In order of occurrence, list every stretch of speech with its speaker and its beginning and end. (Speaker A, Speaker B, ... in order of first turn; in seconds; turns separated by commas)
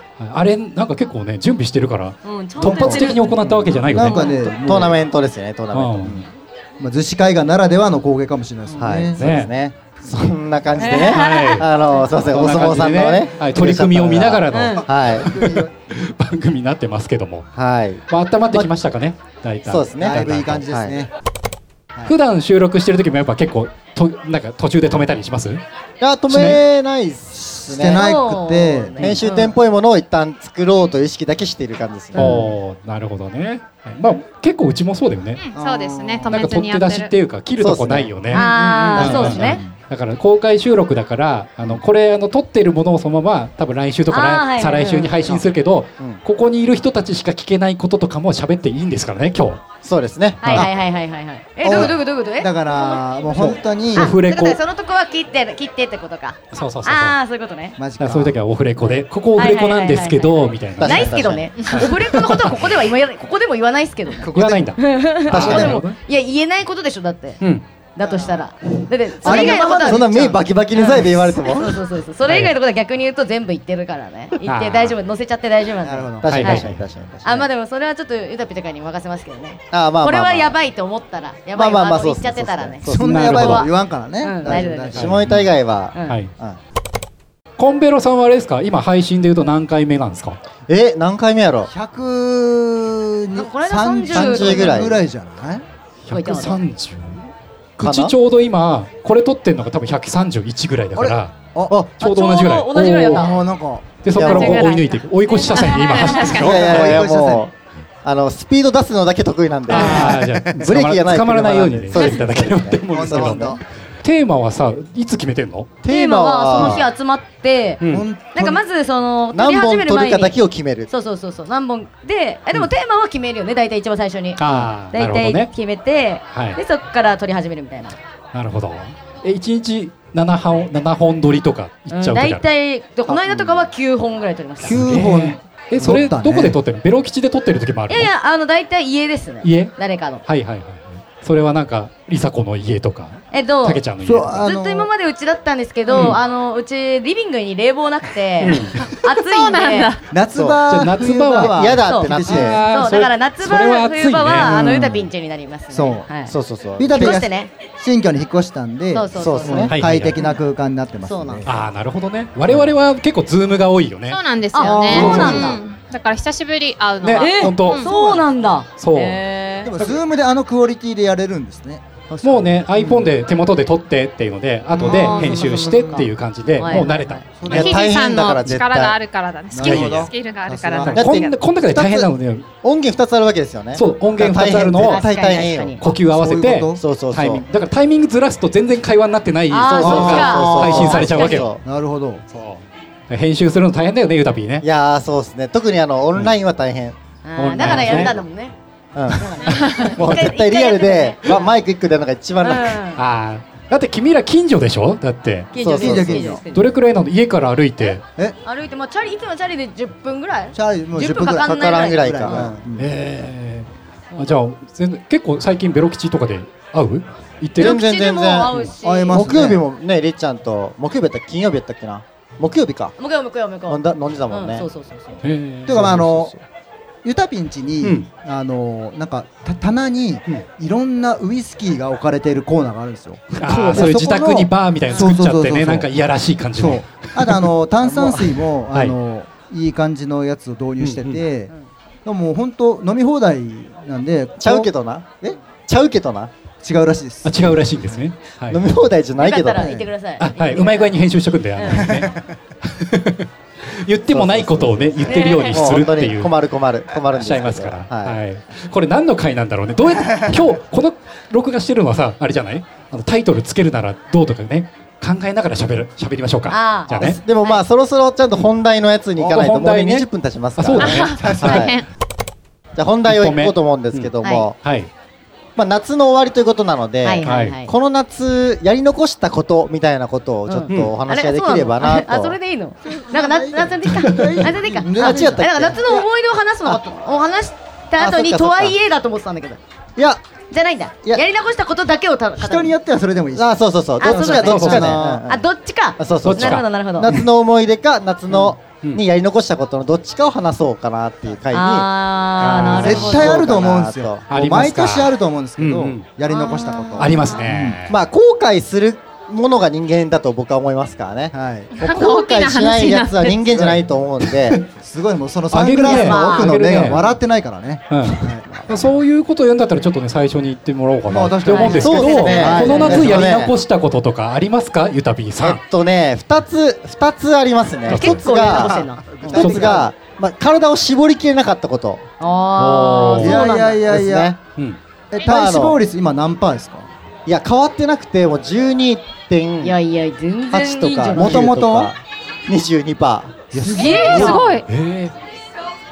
Speaker A: 0.2-4.5, Speaker B: 2.2-3.3, Speaker C: 2.6-5.0, Speaker B: 4.0-4.3, Speaker D: 4.5-6.2, Speaker A: 5.7-6.2, Speaker C: 6.8-9.2, Speaker D: 8.8-15.3, Speaker A: 9.2-9.5, Speaker B: 10.8-12.1, Speaker A: 10.9-17.5, Speaker B: 14.5-14.9, Speaker C: 15.0-15.7, Speaker D: 17.6-18.7, Speaker A: 18.1-20.6, Speaker D: 19.7-21.0, Speaker C: 20.0-21.1, Speaker A: 22.1-25.6, Speaker D: 26.0-28.0, Speaker A: 26.3-26.6, Speaker C: 27.3-29.1, Speaker B: 27.9-29.6, Speaker D: 29.0-32.4, Speaker B: 32.1-32.5, Speaker A: 32.1-35.4, Speaker E: 35.4-37.1, Speaker C: 35.5-36.3, Speaker A: 36.3-49.6, Speaker D: 37.6-38.1, Speaker B: 38.3-39.6, Speaker C: 38.3-39.8, Speaker D: 39.0-39.3, Speaker B: 44.1-45.3, Speaker D: 49.8-50.7, Speaker B: 50.4-57.8, Speaker A: 50.4-50.7, Speaker C: 51.6-54.1, Speaker A: 51.7-51.9, Speaker A: 53.4-54.6, Speaker A: 56.5-57.2, Speaker C: 57.8-58.3, Speaker A: 58.0-62.8, Speaker B: 58.8-67.4, Speaker D: 60.8-61.5, Speaker C: 64.2-64.8, Speaker A: 64.3-66.0, Speaker D: 65.3-65.8, Speaker C: 65.4-65.7, Speaker B: 68.0-70.1, Speaker C: 68.0-68.5, Speaker D: 69.2-71.8, Speaker C: 69.2-71.1, Speaker B: 70.7-76.7, Speaker A: 72.2-72.5, Speaker A: 74.5-74.9, Speaker C: 75.8-76.6, Speaker D: 76.2-77.3, Speaker A: 76.3-76.8, Speaker C: 77.2-77.5, Speaker B: 77.2-83.7, Speaker D: 79.7-80.5, Speaker D: 81.5-83.6, Speaker C: 82.9-85.3, Speaker A: 82.9-83.7, Speaker B: 84.2-85.0, Speaker D: 84.4-86.6, Speaker A: 85.0-85.4, Speaker A: 87.6-90.4, Speaker D: 90.7-91.7, Speaker C: 91.7-95.6, Speaker B: 93.3-95.0, Speaker D: 94.1-95.0, Speaker A: 96.1-101.3, Speaker B: 96.1-96.6, Speaker D: 97.8-98.1, Speaker C: 101.0-101.8, Speaker A: 101.9-103.4, Speaker B: 102.0-103.4, Speaker C: 103.1-103.8, Speaker A: 104.0-107.0, Speaker D: 104.2-104.6, Speaker E: 104.2-106.8, Speaker B: 104.6-106.4, Speaker C: 106.3-107.4, Speaker D: 106.4-113.6, Speaker A: 109.7-115.7, Speaker C: 109.7-110.7, Speaker B: 109.7-110.1, Speaker C: 112.9-113.6, Speaker D: 115.8-116.9, Speaker B: 115.8-117.8, Speaker A: 117.8-118.1, Speaker C: 117.9-118.6, Speaker B: 118.3-120.4, Speaker D: 119.3-120.9, Speaker B: 120.9-128.0, Speaker A: 124.4-125.5, Speaker A: 126.3-126.6, Speaker A: 128.3-132.4, Speaker B: 131.9-135.1, Speaker C: 134.6-136.6, Speaker A: 134.6-138.1, Speaker B: 137.9-140.2, Speaker A: 139.4-139.7, Speaker A: 140.2-144.4, Speaker B: 143.3-143.8, Speaker C: 144.0-144.9, Speaker B: 144.4-149.9, Speaker A: 145.9-146.2, Speaker A: 148.4-148.8, Speaker E: 148.8-150.0, Speaker C: 150.1-152.6, Speaker D: 150.3-150.6, Speaker A: 150.7-154.5, Speaker D: 151.3-152.6, Speaker B: 151.8-156.3, Speaker C: 154.4-155.1, Speaker C: 155.7-156.1, Speaker D: 156.3-157.2, Speaker C: 156.8-161.6, Speaker B: 156.9-157.5, Speaker B: 158.9-159.7, Speaker D: 159.2-159.7, Speaker A: 159.7-160.3, Speaker B: 161.0-161.5, Speaker A: 161.4-164.2, Speaker E: 164.1-167.9, Speaker B: 164.5-165.6, Speaker C: 164.6-165.5, Speaker A: 164.9-165.4, Speaker A: 167.0-167.9, Speaker B: 167.2-169.7, Speaker C: 167.7-168.3, Speaker A: 168.8-169.2, Speaker C: 169.6-171.8, Speaker B: 172.1-172.6, Speaker A: 172.2-177.4, Speaker C: 172.8-173.1, Speaker C: 174.7-176.0, Speaker B: 174.8-177.2, Speaker C: 176.6-177.9, Speaker D: 177.5-179.0, Speaker E: 177.5-181.4, Speaker C: 179.5-181.0, Speaker A: 179.6-180.1, Speaker A: 180.9-182.5, Speaker D: 180.9-182.1, Speaker D: 182.6-185.8, Speaker A: 183.7-185.0, Speaker C: 184.2-184.6, Speaker B: 184.7-185.8, Speaker A: 185.8-191.5, Speaker C: 185.9-186.8, Speaker D: 186.8-187.4, Speaker B: 189.5-191.5, Speaker D: 189.7-191.6, Speaker C: 189.8-191.0, Speaker C: 191.6-192.2, Speaker A: 192.3-194.6, Speaker D: 194.6-197.0, Speaker B: 197.2-198.5, Speaker A: 197.4-198.1, Speaker D: 197.6-198.1, Speaker D: 198.9-202.8, Speaker B: 199.1-201.2, Speaker E: 199.5-199.9, Speaker B: 202.4-203.0, Speaker A: 202.9-205.5, Speaker B: 205.5-206.7, Speaker D: 205.6-206.4, Speaker C: 205.7-206.4, Speaker A: 206.5-208.0, Speaker B: 207.8-212.6, Speaker C: 210.5-212.9, Speaker D: 211.2-212.6, Speaker A: 212.8-217.8, Speaker B: 214.1-214.4, Speaker D: 217.6-218.5, Speaker B: 217.6-219.3, Speaker C: 218.8-219.6, Speaker D: 219.1-222.9, Speaker B: 223.0-225.2, Speaker D: 223.7-224.7, Speaker A: 225.2-226.0, Speaker C: 225.7-226.3, Speaker D: 225.7-226.3, Speaker C: 227.0-235.9, Speaker A: 233.4-237.5, Speaker C: 236.6-241.5, Speaker D: 237.8-238.4, Speaker A: 240.8-241.2, Speaker C: 242.0-244.7, Speaker D: 244.4-245.1, Speaker D: 245.7-246.3, Speaker C: 246.6-247.6, Speaker A: 247.2-248.7, Speaker D: 248.5-249.8, Speaker B: 249.2-251.0, Speaker C: 249.6-249.9, Speaker A: 250.2-256.3, Speaker B: 251.6-252.0, Speaker C: 251.8-252.1, Speaker D: 254.1-258.2, Speaker B: 255.0-255.6, Speaker A: 257.0-267.2, Speaker B: 266.5-267.6, Speaker D: 266.9-271.7, Speaker A: 269.2-270.1, Speaker A: 270.6-271.5, Speaker E: 270.8-271.9, Speaker C: 271.2-271.7, Speaker D: 272.8-274.6, Speaker A: 273.1-274.1, Speaker B: 274.2-274.5, Speaker A: 274.6-274.9, Speaker D: 275.6-282.4, Speaker B: 277.0-277.7, Speaker A: 277.2-277.5, Speaker B: 280.5-289.6, Speaker C: 282.8-286.0, Speaker A: 283.9-284.4, Speaker D: 285.0-285.8, Speaker D: 288.0-288.8, Speaker D: 290.0-290.2, Speaker B: 290.5-292.7, Speaker C: 292.4-293.5, Speaker D: 293.3-295.4, Speaker B: 294.0-297.2, Speaker C: 294.0-295.2, Speaker A: 294.4-295.0, Speaker D: 296.0-301.9, Speaker A: 296.2-296.6, Speaker B: 301.5-303.4, Speaker A: 302.4-303.2, Speaker C: 302.8-307.8, Speaker D: 302.8-304.2, Speaker A: 304.3-306.0, Speaker B: 306.3-307.4, Speaker A: 307.0-307.9, Speaker D: 307.9-314.6, Speaker C: 311.3-311.7, Speaker E: 311.8-313.4, Speaker C: 313.4-313.8, Speaker C: 314.7-318.9, Speaker A: 315.5-317.1, Speaker B: 315.8-316.6, Speaker A: 317.9-325.6, Speaker C: 321.1-323.3, Speaker B: 321.4-323.1, Speaker D: 321.8-323.5, Speaker D: 325.4-332.0, Speaker A: 327.9-328.7, Speaker B: 327.9-329.4, Speaker C: 329.0-329.9, Speaker A: 329.3-329.9, Speaker B: 332.2-333.8, Speaker A: 332.6-333.4, Speaker C: 333.1-334.4, Speaker D: 333.8-334.4, Speaker C: 335.1-336.9, Speaker D: 335.2-335.8, Speaker D: 337.2-339.8, Speaker B: 339.6-341.4, Speaker D: 340.5-343.4, Speaker C: 341.1-341.9, Speaker C: 343.5-344.4, Speaker B: 343.6-344.6, Speaker E: 343.7-344.7, Speaker A: 344.2-345.1